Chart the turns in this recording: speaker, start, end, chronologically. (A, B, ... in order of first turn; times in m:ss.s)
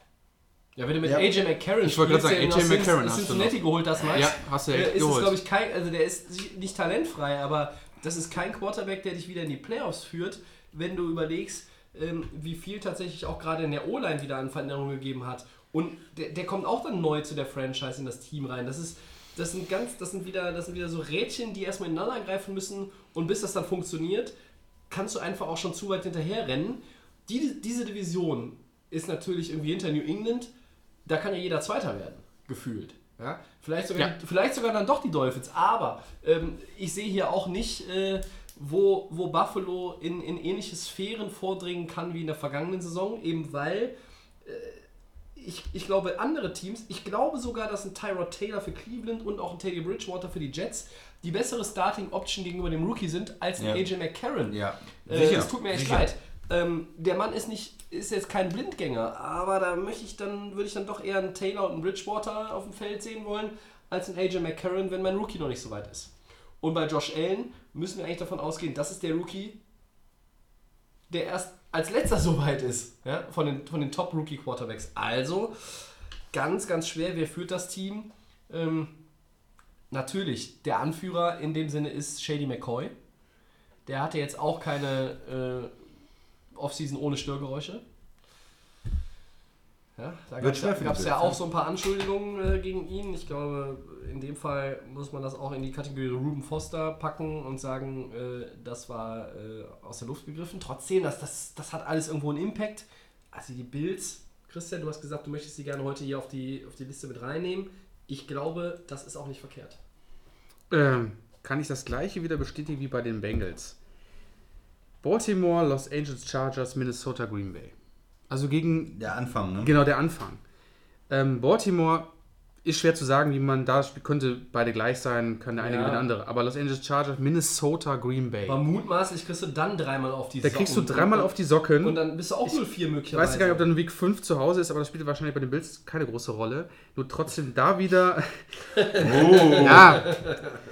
0:00.8-0:24.3 A
0:01.8-0:05.4 B
0:24.9-0:30.5 A
0:31.0-0:44.8 A
0:45.4-1:09.6 A
0:54.5-0:56.1 C
1:11.1-1:18.9 A
1:19.9-1:22.9 A
1:23.8-1:25.7 A
1:26.6-1:27.8 A
1:30.0-1:49.8 A
1:30.4-1:31.4 C
1:50.7-1:53.8 B
1:55.0-1:57.7 B
1:58.3-1:59.0 B
1:58.9-1:59.7 C
1:59.6-2:00.4 B
2:01.1-2:02.1 B
2:02.6-2:08.6 B
2:05.6-2:06.0 A
2:08.4-2:11.3 A
2:10.4-2:20.3 B
2:11.8-2:13.6 A
2:18.8-2:20.4 A
2:19.0-2:20.0 C